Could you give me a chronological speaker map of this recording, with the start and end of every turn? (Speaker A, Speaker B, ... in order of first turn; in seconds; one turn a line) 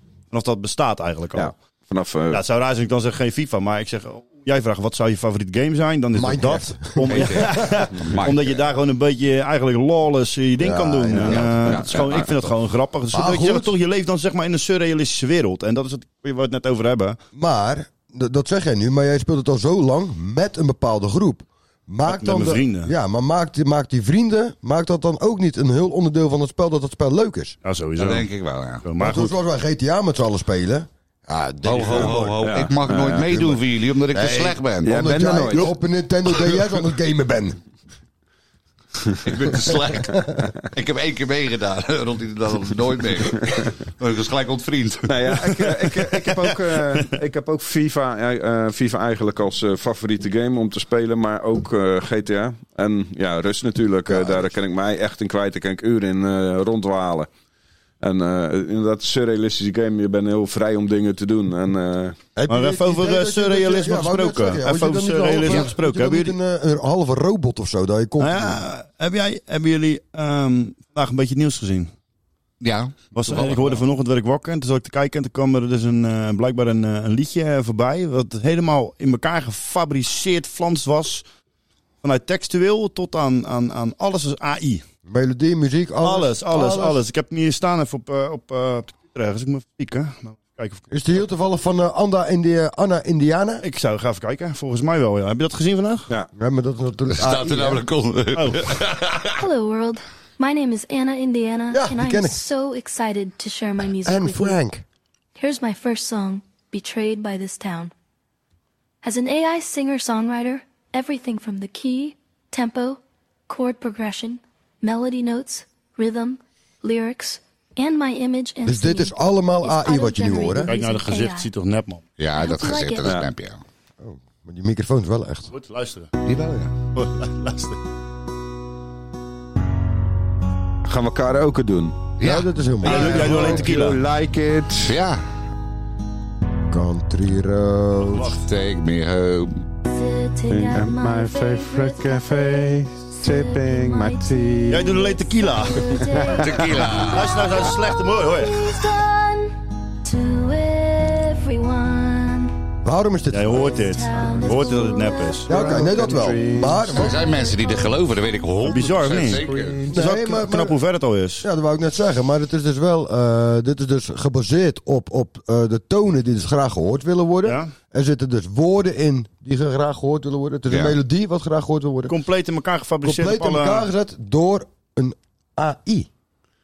Speaker A: 0.3-1.5
Speaker B: 1.4-2.4
Speaker A: 2.3-17.2
Speaker C: 6.1-7.5
Speaker D: 7.0-8.5
Speaker C: 10.6-11.6
Speaker D: 11.2-12.5
Speaker C: 13.1-13.7
Speaker C: 17.4-27.6
Speaker A: 22.1-22.9
Speaker A: 27.6-28.3
Speaker D: 28.0-28.9
Speaker A: 28.8-29.3
Speaker C: 29.0-32.4
Speaker D: 31.6-35.1
Speaker B: 31.8-33.3
Speaker C: 33.2-33.6
Speaker C: 34.1-37.6
Speaker B: 34.8-35.8
Speaker D: 39.2-45.6
Speaker C: 39.6-40.4
Speaker B: 45.1-57.3
Speaker C: 54.1-54.5
Speaker B: 58.0-62.1
Speaker C: 62.4-68.6
Speaker A: 62.5-66.4
Speaker A: 68.2-71.9
Speaker D: 72.6-73.8
Speaker A: 73.1-81.2
Speaker A: 82.0-84.8
Speaker C: 85.1-87.0
Speaker A: 86.0-90.9
Speaker C: 90.9-93.6
Speaker A: 93.6-96.1
Speaker C: 96.3-97.8
Speaker D: 97.1-99.4
Speaker A: 98.3-98.6
Speaker E: 99.4-104.6
Speaker C: 101.7-102.4
Speaker C: 104.0-104.8
Speaker E: 105.4-107.9
Speaker E: 109.0-121.5
Speaker C: 118.6-120.7
Speaker A: 120.7-122.0
Speaker D: 122.2-123.6
Speaker E: 122.3-123.1
Speaker C: 124.0-125.5
Speaker A: 125.5-126.1
Speaker D: 126.2-126.7
Speaker A: 126.9-127.8
Speaker B: 130.9-132.0
Speaker D: 132.2-132.5
Speaker C: 132.2-133.7
Speaker A: 132.8-134.0
Speaker B: 132.8-134.9
Speaker D: 134.8-135.2
Speaker C: 136.7-138.4
Speaker D: 138.4-139.6
Speaker E: 139.9-152.6
Speaker B: 140.5-144.9
Speaker A: 144.7-146.0
Speaker B: 146.0-146.4
Speaker D: 146.4-147.5
Speaker A: 147.1-148.8
Speaker C: 152.8-153.7
Speaker A: 153.3-155.8
Speaker E: 153.5-158.0
Speaker C: 155.5-157.2
Speaker B: 155.5-156.9
Speaker D: 156.9-159.8
Speaker A: 158.6-161.4
Speaker B: 159.4-159.9
Speaker C: 159.9-160.8
Speaker C: 161.4-172.1
Speaker A: 167.4-167.7
Speaker D: 170.7-171.0
Speaker A: 172.1-173.9
Speaker C: 173.0-176.1